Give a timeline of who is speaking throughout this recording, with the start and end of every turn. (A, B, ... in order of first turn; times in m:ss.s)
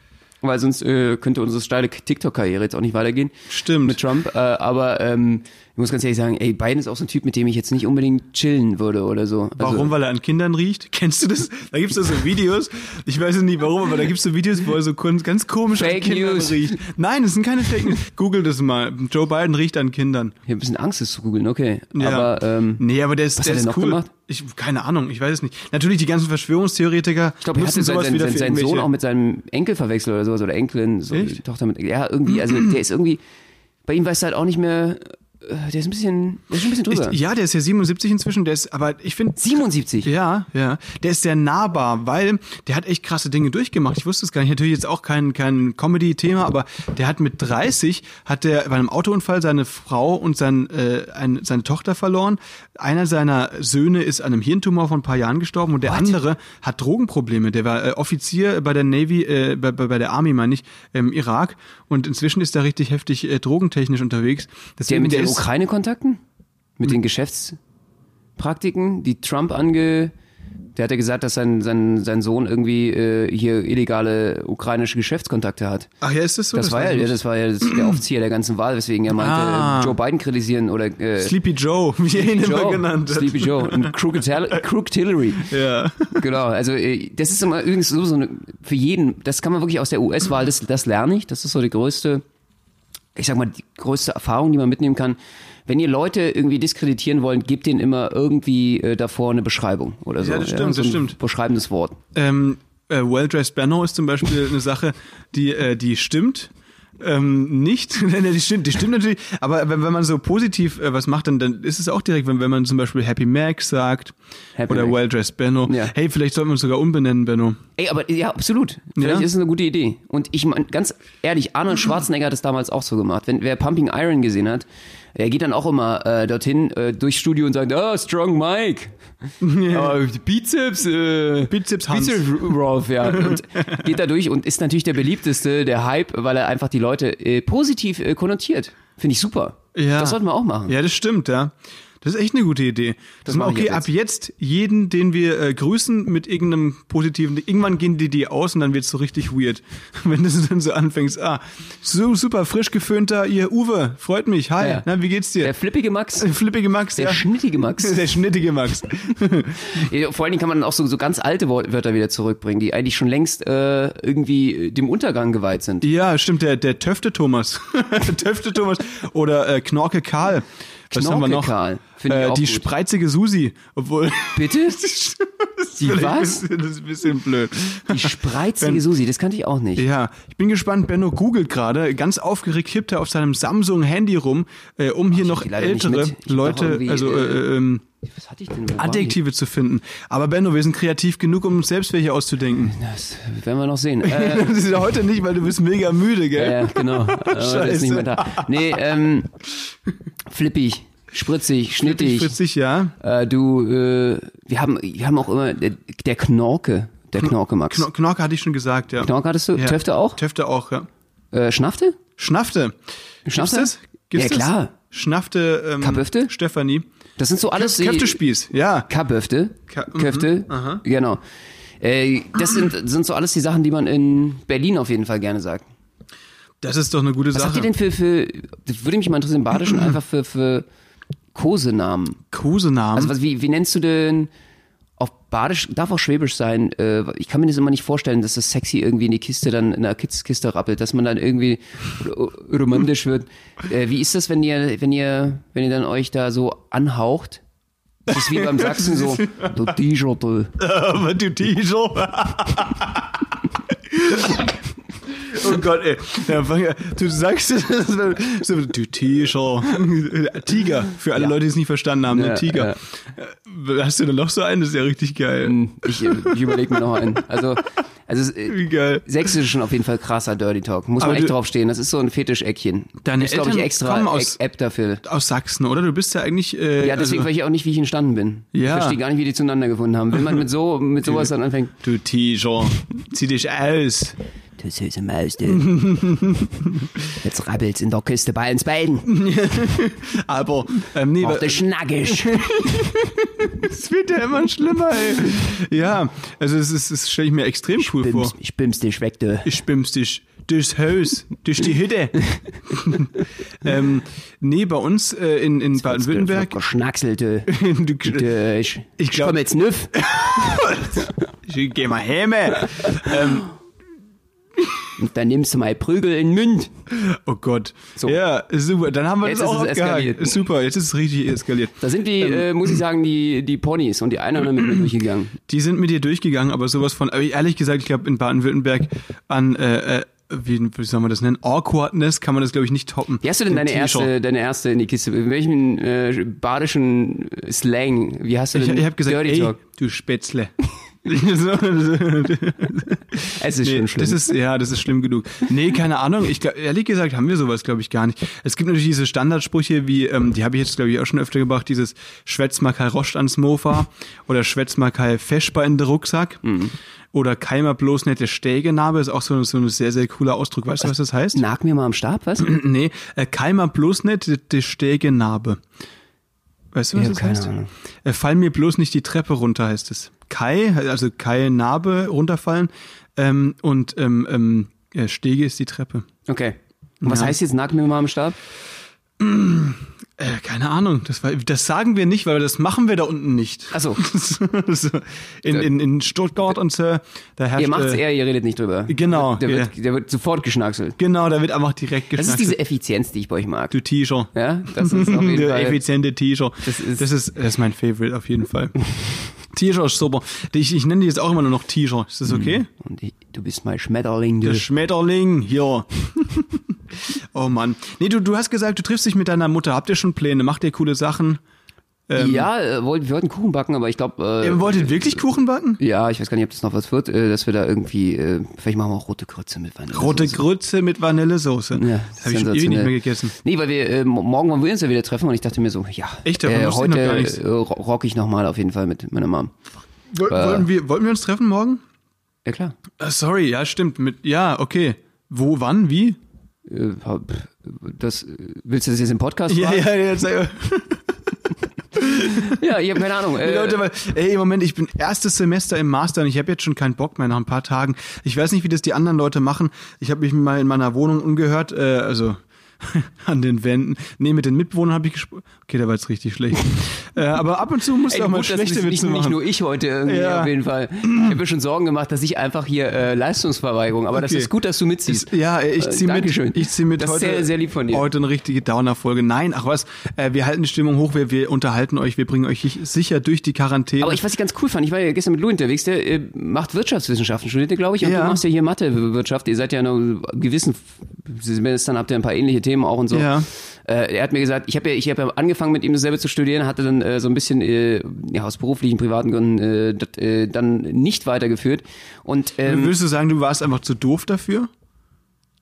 0:00.4-0:03.3 A
0:03.5-0:04.0 B
0:03.8-0:09.9 A
0:09.6-0:20.3 B
0:15.7-0:16.8 A
0:20.4-0:22.8 A
0:21.9-0:28.9 B
0:23.4-0:24.1 A
0:27.4-0:33.2 A
0:31.1-0:31.4 B
0:33.9-0:37.2 A
0:36.9-0:39.4 B
0:39.4-0:40.1 A
0:40.0-1:05.4 B
0:55.8-0:56.2 A
1:04.9-1:06.2 A
1:06.8-1:07.6 A
1:08.4-1:10.1 A
1:10.8-1:15.9 A
1:16.0-1:17.9 B
1:16.5-1:21.4 A
1:19.1-1:19.9 B
1:21.2-1:23.9 B
1:22.1-1:25.5 A
1:25.4-1:26.2 B
1:26.1-1:32.2 A
1:33.2-1:42.0 A
1:40.2-1:41.1 B
1:42.1-1:54.1 B
1:54.6-1:55.0 A
1:54.7-1:57.6 B
1:55.6-1:55.9 A
1:57.8-2:08.9 A
1:59.0-1:59.3 B
2:09.4-2:10.0 B
2:09.7-2:20.7 A
2:11.5-2:12.5 B
2:13.0-2:13.8 B
2:19.7-2:35.5 B
2:23.2-2:23.9 A
2:34.6-2:34.8 A
2:35.4-2:36.3 A
2:36.2-2:37.2 B
2:37.0-2:38.0 A
2:37.8-2:39.9 B
2:39.6-2:45.9 A
2:45.8-2:51.5 B
2:50.9-2:52.7 A
2:52.1-2:58.8 B
2:54.4-2:54.9 A
2:55.8-2:56.4 A
2:57.9-2:59.8 A
2:59.8-3:07.8 B
3:05.1-3:07.4 A
3:08.0-3:09.2 A
3:08.8-3:12.8 B
3:12.7-3:14.5 A
3:14.0-3:18.8 B
3:16.3-3:19.3 A
3:20.3-3:22.3 A
3:21.8-3:22.9 B
3:23.0-3:27.9 A
3:27.2-3:30.9 B
3:29.0-3:30.2 A
3:31.3-3:32.0 A
3:32.2-3:32.8 B
3:33.2-3:34.7 A
3:33.3-3:36.8 B
3:35.8-3:36.3 A
3:37.2-3:38.2 A
3:37.5-3:38.9 B
3:38.9-3:41.2 A
3:39.7-3:40.8 B
3:41.8-3:45.6 A
3:46.6-3:47.7 B
3:47.3-3:50.6 A
3:51.3-3:52.2 A
3:52.3-3:53.1 B
3:53.0-3:54.3 A
3:55.0-4:07.4 A
4:08.1-4:10.5 A
4:08.1-4:09.5 B
4:10.6-4:13.2 B
4:13.9-4:14.4 B
4:15.1-4:26.5 B
4:22.1-4:22.8 A
4:25.4-4:35.0 A
4:28.5-4:29.3 B
4:31.0-4:31.3 B
4:33.0-4:34.4 B
4:35.0-4:37.3 B
4:36.8-4:41.7 A
4:38.5-4:39.0 B
4:41.0-4:44.1 B
4:44.6-4:45.7 A
4:45.5-4:46.9 B
4:47.2-4:49.1 A
4:49.0-4:58.3 B
4:51.2-4:52.8 A
4:57.8-4:59.5 A
4:59.4-5:06.6 B
5:05.8-5:07.5 A
5:07.5-5:08.2 B
5:08.0-5:09.9 A
5:09.0-5:09.4 B
5:09.9-5:13.5 B
5:15.0-5:16.7 A
5:16.9-5:22.5 B
5:19.2-5:20.4 A
5:21.8-5:25.4 A
5:25.5-5:34.1 B
5:33.2-5:39.6 A
5:38.5-5:40.5 B
5:41.0-5:56.4 B
5:43.4-5:44.3 A
5:56.4-5:56.7 A
5:57.1-6:01.4 B
6:01.3-6:02.6 A
6:02.4-6:05.6 B
6:06.7-6:07.5 B
6:06.9-6:07.7 A
6:08.0-6:16.0 B
6:16.3-6:18.4 A
6:17.0-6:17.3 B
6:19.2-6:28.0 B
6:23.7-6:24.0 A
6:27.6-6:31.0 A
6:28.9-6:29.7 B
6:31.0-6:32.6 B
6:32.2-6:33.7 A
6:33.7-6:34.3 B
6:34.3-6:35.8 A
6:34.8-6:38.8 B
6:36.6-6:37.0 A
6:39.4-6:42.7 B
6:42.3-6:44.7 A
6:44.4-6:46.6 B
6:47.3-6:51.4 B
6:52.1-6:52.5 B
6:52.2-6:55.2 A
6:54.4-6:55.8 B
6:55.8-7:00.4 A
6:59.9-7:03.3 B
7:01.7-7:09.5 A
7:06.2-7:07.4 B
7:10.1-7:11.8 B
7:10.3-7:10.7 A
7:12.4-7:12.8 A
7:13.0-7:16.2 B
7:16.7-7:19.9 A
7:19.5-7:21.0 B
7:21.9-7:22.5 B
7:22.3-7:23.8 A
7:23.4-7:39.4 B
7:38.0-7:48.0 A
7:40.0-7:40.5 B
7:41.0-7:41.4 B
7:44.1-7:44.5 B
7:45.1-7:54.2 B
7:54.0-8:12.9 A
7:58.0-7:58.4 B
8:03.1-8:03.5 B
8:12.6-8:14.7 B